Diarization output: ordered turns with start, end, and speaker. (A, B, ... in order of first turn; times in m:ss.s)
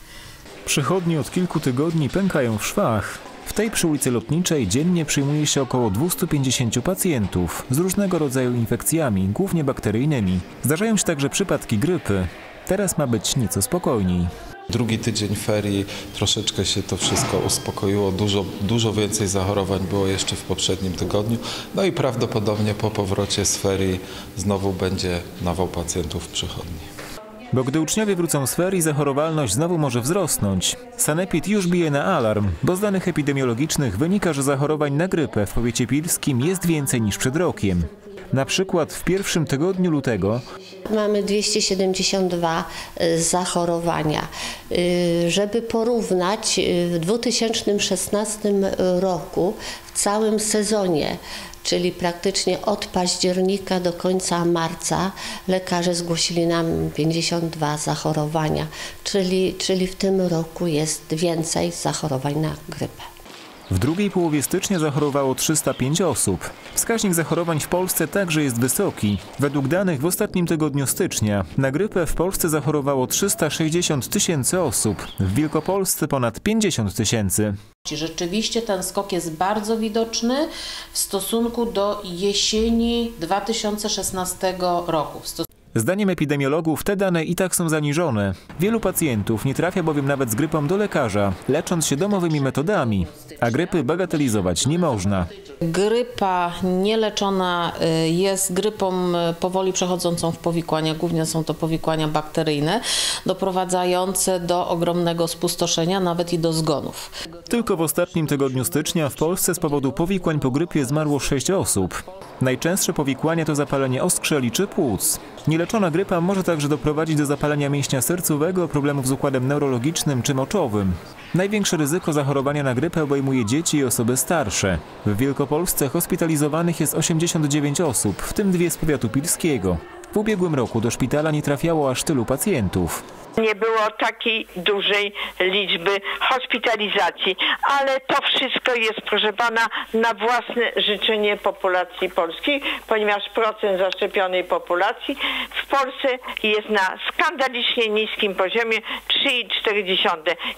0:00.6-0:14.3 A
0:14.7-0:26.9 B
0:27.5-0:40.4 A
0:40.9-1:03.0 C
1:03.7-1:17.6 A
1:17.8-1:25.4 D
1:25.7-1:35.3 A
1:35.6-1:47.1 D
1:47.5-2:13.0 A
2:13.4-2:30.4 E